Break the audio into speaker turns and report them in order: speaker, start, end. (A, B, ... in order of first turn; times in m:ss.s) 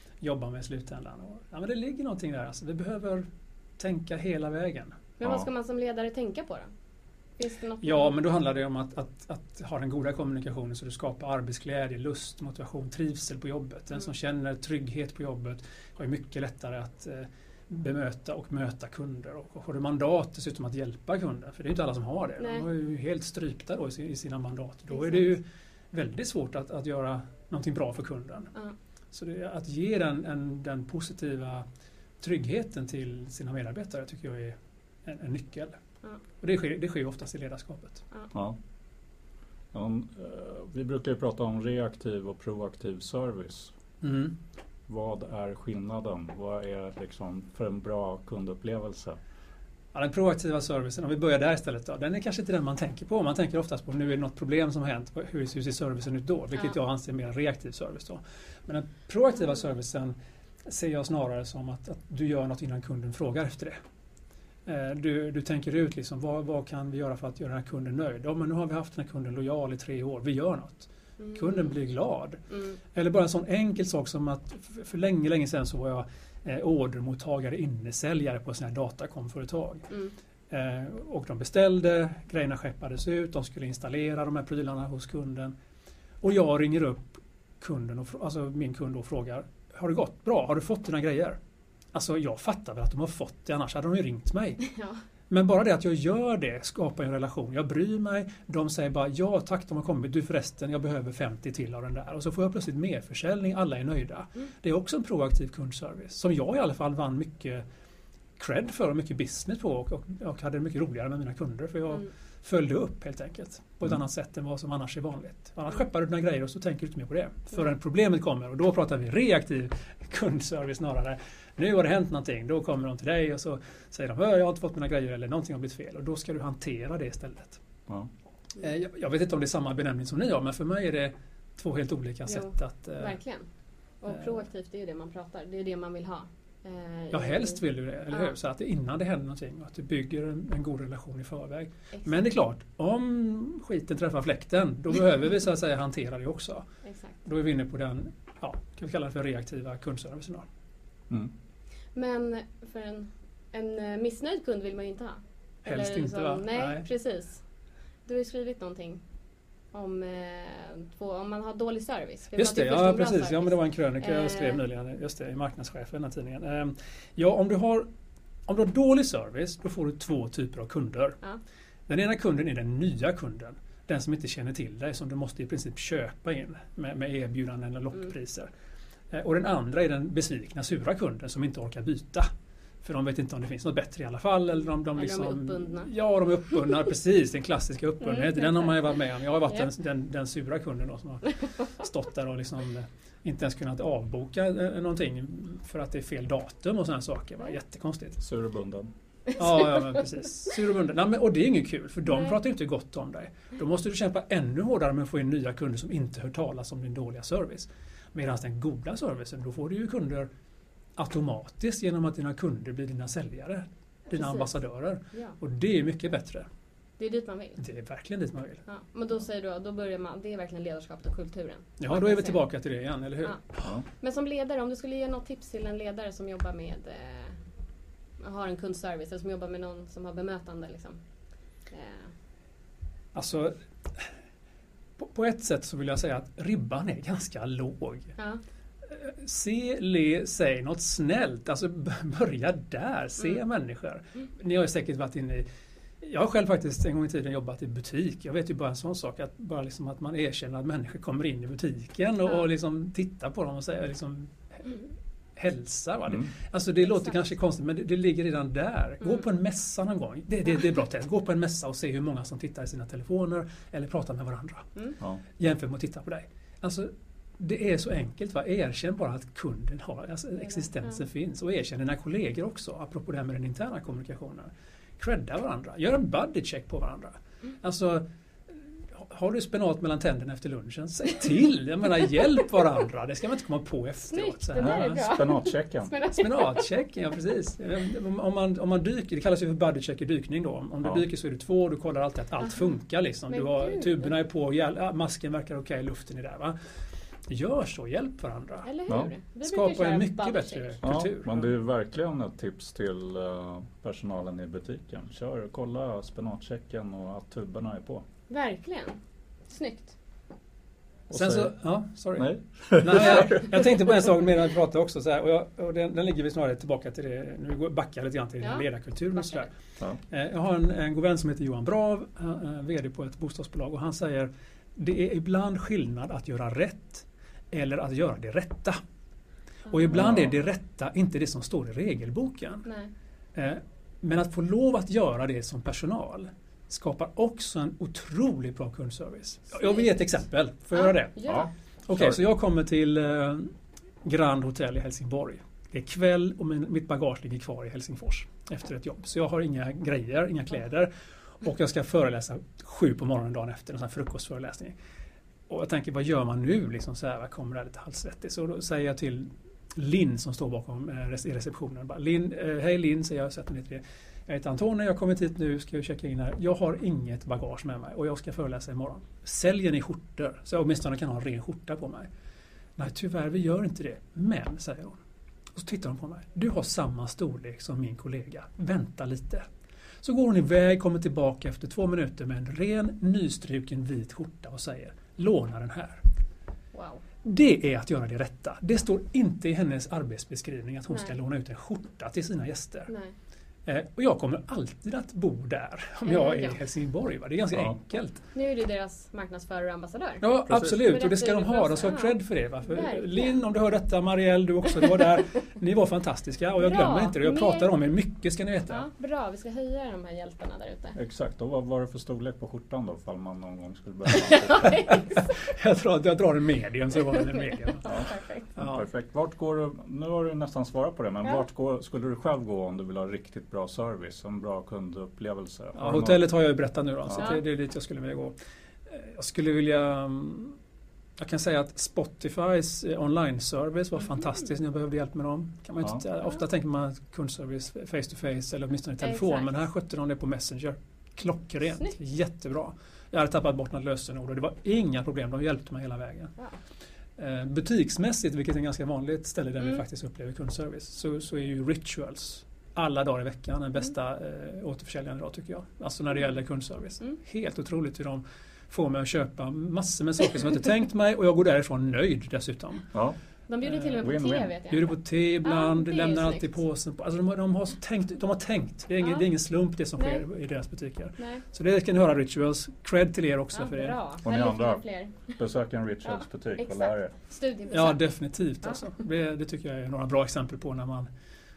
0:00.2-0:03.3 A
0:03.8-0:05.0 A
0:05.2-0:06.7 B
0:05.2-0:05.5 C
0:07.4-0:08.1 B
0:07.8-0:28.5 A
0:22.4-0:22.6 B
0:24.9-0:25.3 B
0:29.1-0:31.6 A
0:32.2-0:35.8 A
0:36.4-0:38.0 A
0:38.3-0:38.6 C
0:39.7-0:43.7 C
0:44.0-0:44.4 A
0:44.9-0:49.2 C
0:49.9-1:03.8 A
1:04.6-1:12.4 A
1:11.2-1:11.7 B
1:12.5-1:12.8 B
1:12.9-1:19.8 A
1:19.9-1:20.1 B
1:20.5-1:25.5 A
1:26.2-1:31.4 A
1:31.9-1:34.7 A
1:34.6-1:35.0 B
1:35.3-1:47.6 A
1:48.4-2:07.6 A
2:08.6-2:13.2 A
2:12.2-2:13.4 B
2:14.0-2:18.3 B
2:14.1-2:14.4 A
2:17.1-2:26.6 A
2:21.9-2:22.3 B
2:26.8-2:27.2 B
2:27.2-2:30.4 A
2:31.9-2:37.4 B
2:35.6-2:36.8 A
2:38.0-2:39.0 B
2:39.7-2:44.6 B
2:42.3-2:47.9 A
2:48.5-2:51.2 A
2:51.9-2:58.5 A
2:59.1-3:02.3 A
3:02.8-3:18.2 A
3:04.9-3:05.9 B
3:08.0-3:09.0 B
3:18.2-3:18.9 C
3:19.4-3:30.3 A
3:19.5-3:20.0 B
3:22.0-3:22.4 B
3:31.0-3:36.5 A
3:34.1-3:34.6 B
3:35.1-3:35.4 B
3:37.0-3:37.6 B
3:37.6-3:38.6 A
3:38.6-3:42.6 B
3:41.8-3:43.6 A
3:43.2-3:47.4 B
3:48.2-3:51.0 B
3:51.6-3:52.1 B
3:53.1-3:54.1 A
3:55.0-3:58.1 A
3:58.8-4:05.4 A
4:06.0-4:24.7 A
4:16.8-4:17.3 B
4:25.4-4:45.0 A
4:30.4-4:31.0 B
4:44.1-4:46.6 B
4:44.6-4:46.0 C
4:46.2-4:56.5 A
4:52.4-4:52.7 B
4:53.3-4:54.1 B
4:57.3-4:58.7 A
4:58.6-5:00.8 B
4:58.9-4:59.1 C
4:59.4-5:01.5 A
5:00.8-5:08.0 C
5:08.3-5:09.9 B
5:11.1-5:11.5 C
5:11.1-5:19.5 A
5:12.2-5:13.8 C
5:18.4-5:19.5 B
5:20.1-5:28.8 A
5:29.7-5:29.9 B
5:29.7-5:32.7 A
5:29.9-5:30.3 C
5:32.6-5:32.9 B
5:33.3-5:41.3 A
5:39.5-5:39.9 B
5:40.7-5:41.5 B
5:41.2-5:42.2 C
5:41.9-5:54.8 A
5:55.5-6:12.1 A
6:12.8-6:15.0 A
6:15.5-6:19.4 A
6:20.0-6:26.0 A
6:26.7-6:27.0 B
6:27.2-6:32.9 A
6:30.9-6:31.2 B
6:32.9-6:33.1 B
6:33.6-6:38.2 A
6:36.0-6:36.6 B
6:38.3-6:40.2 B
6:40.2-6:48.9 A
6:40.5-6:40.9 C
6:40.8-6:43.4 B
6:46.6-6:47.7 B
6:48.7-6:51.0 B
6:50.9-6:54.8 C
6:54.2-6:55.4 B
6:55.1-6:57.8 A
6:57.8-6:58.5 B
6:57.8-7:06.3 C
6:58.6-6:58.8 A
7:05.7-7:08.4 A
7:07.0-7:07.4 C
7:08.9-7:10.6 A
7:11.2-7:26.3 A
7:19.0-7:19.6 B
7:27.2-7:42.9 A
7:43.5-7:46.6 B
7:43.6-7:44.1 A
7:44.0-7:44.5 C
7:44.6-7:54.0 A
7:49.0-7:49.3 B
7:50.0-7:50.2 B
7:51.2-7:51.4 B
7:53.5-7:55.4 B
7:54.2-7:57.1 C
7:56.0-7:58.0 B
7:57.7-8:01.1 A